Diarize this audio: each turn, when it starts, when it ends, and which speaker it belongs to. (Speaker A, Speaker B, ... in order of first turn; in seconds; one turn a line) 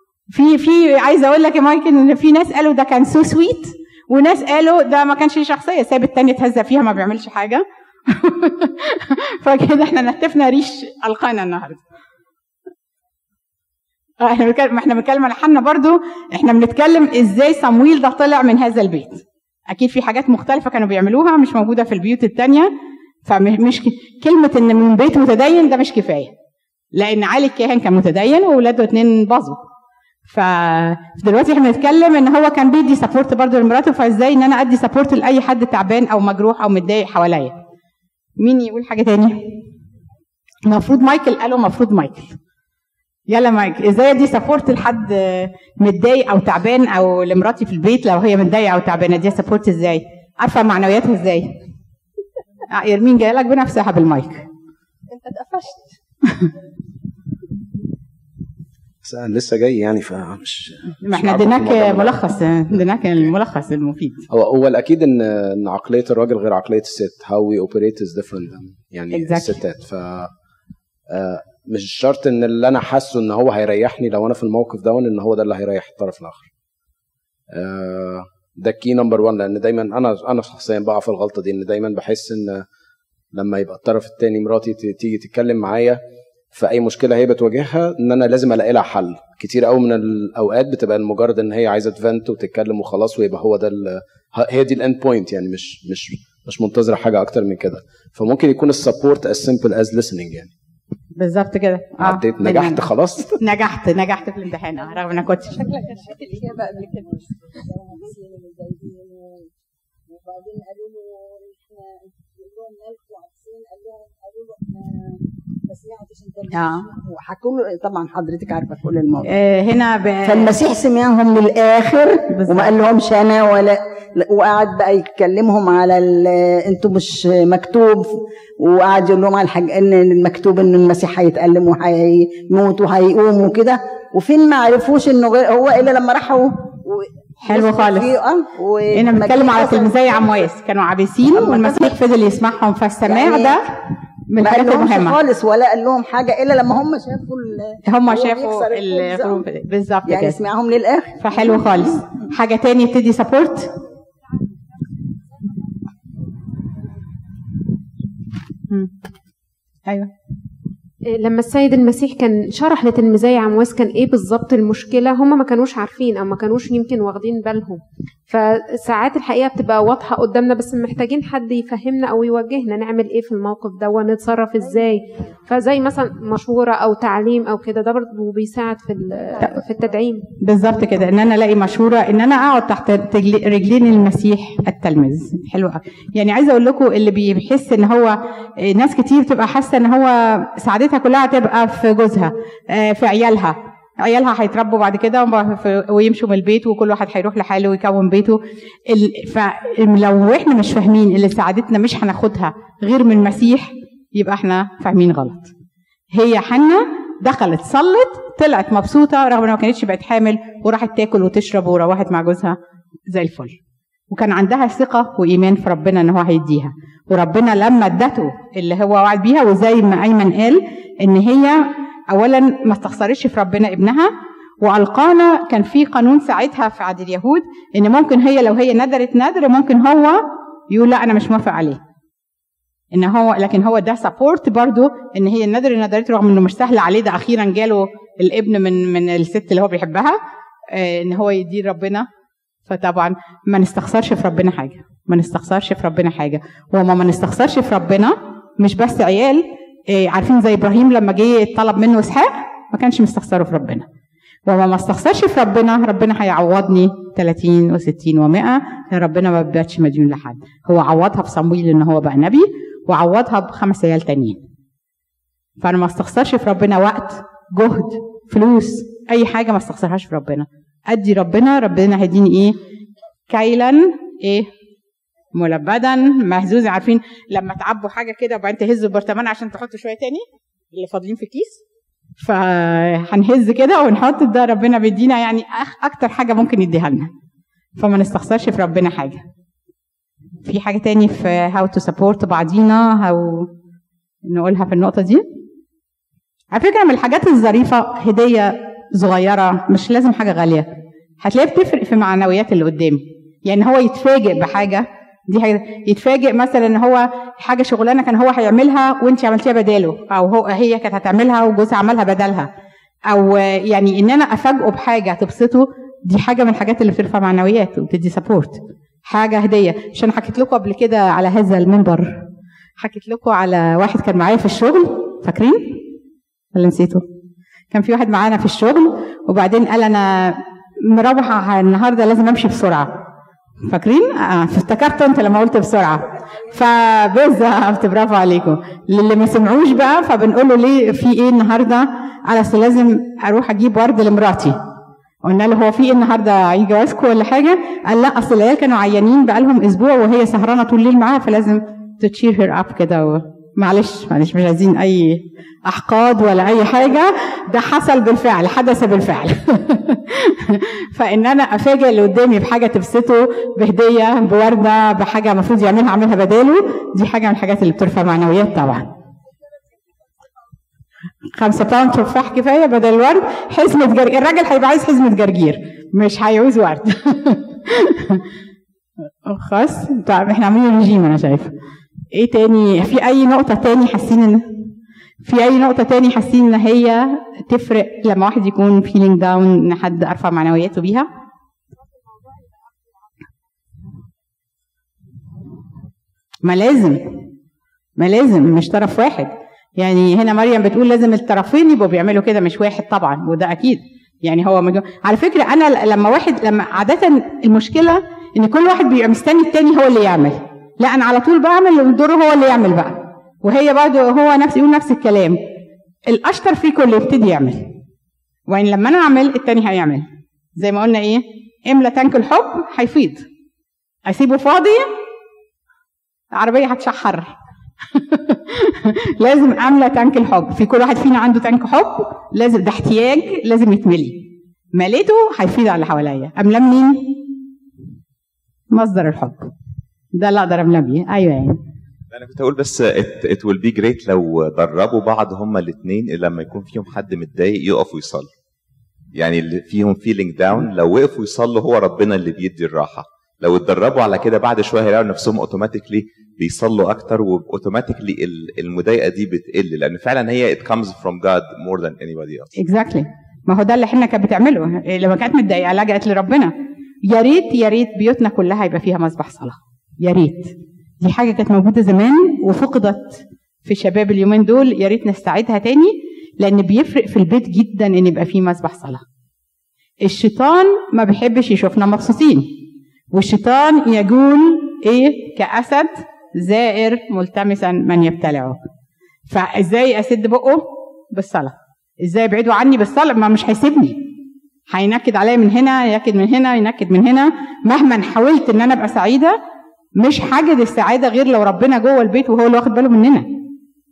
Speaker A: 0.3-11.8
Speaker A: 14.2-22.7
Speaker A: 23.2-26.3
Speaker A: 26.9-29.6
Speaker A: 30.3-37.5
Speaker A: 38.4-39.5
Speaker A: 40.6-42.4
Speaker A: 43.3-51.5
Speaker A: 52.7-54.5
Speaker B: 55.1-55.9
Speaker C: 59.0-62.8
Speaker A: 61.0-64.3
Speaker C: 64.3-70.3
Speaker A: 69.1-69.6
Speaker C: 71.1-76.5
Speaker C: 77.5-82.6
Speaker C: 83.3-86.0
Speaker C: 86.5-100.5
Speaker A: 101.2-102.8
Speaker C: 102.0-103.4
Speaker A: 103.4-105.6
Speaker D: 105.6-109.5
Speaker B: 105.6-106.9
Speaker D: 110.1-119.3
Speaker A: 116.5-116.8
Speaker A: 119.3-120.5
Speaker D: 120.2-140.5
Speaker A: 122.4-122.7
Speaker A: 137.4-138.2
Speaker A: 138.9-143.6
Speaker D: 141.3-141.9
Speaker D: 143.1-143.6
Speaker A: 144.3-145.2
Speaker D: 144.4-149.4
Speaker A: 147.9-150.4
Speaker D: 150.1-152.0
Speaker A: 151.2-153.7
Speaker E: 161.1-180.3
Speaker A: 180.4-205.5
Speaker A: 206.1-212.6
Speaker A: 213.1-213.6
Speaker A: 214.1-231.8
Speaker A: 232.9-240.2
Speaker A: 240.7-242.1
Speaker A: 242.7-253.9
Speaker A: 254.5-264.4
Speaker A: 265.6-272.6
Speaker A: 273.3-274.5
Speaker A: 275.3-281.6
Speaker A: 282.2-287.1
Speaker A: 287.8-289.2
Speaker A: 290.4-293.5
Speaker A: 294.3-295.2
Speaker A: 296.5-300.7
Speaker A: 301.2-312.5
Speaker A: 313.1-322.1
Speaker A: 322.8-325.8
Speaker A: 326.5-327.0
Speaker A: 327.7-333.0
Speaker A: 333.7-344.6
Speaker A: 345.2-368.9
Speaker A: 371.4-378.2
Speaker A: 379.2-381.5
Speaker A: 382.1-384.6
Speaker A: 385.2-391.1
Speaker A: 396.4-397.2
Speaker A: 398.0-415.4
Speaker A: 416.1-417.7
Speaker A: 418.5-420.0
Speaker A: 420.6-423.2
Speaker A: 424.1-424.9
Speaker A: 426.3-427.4
Speaker A: 427.9-434.2
Speaker A: 434.8-437.1
Speaker A: 438.7-439.5
Speaker A: 440.1-441.6
Speaker F: 442.1-448.3
Speaker F: 449.1-462.5
Speaker A: 462.6-466.5
Speaker A: 467.0-479.0
Speaker A: 480.0-482.5
Speaker A: 483.1-488.6
Speaker A: 489.3-494.1
Speaker A: 494.7-499.4
Speaker A: 500.0-503.3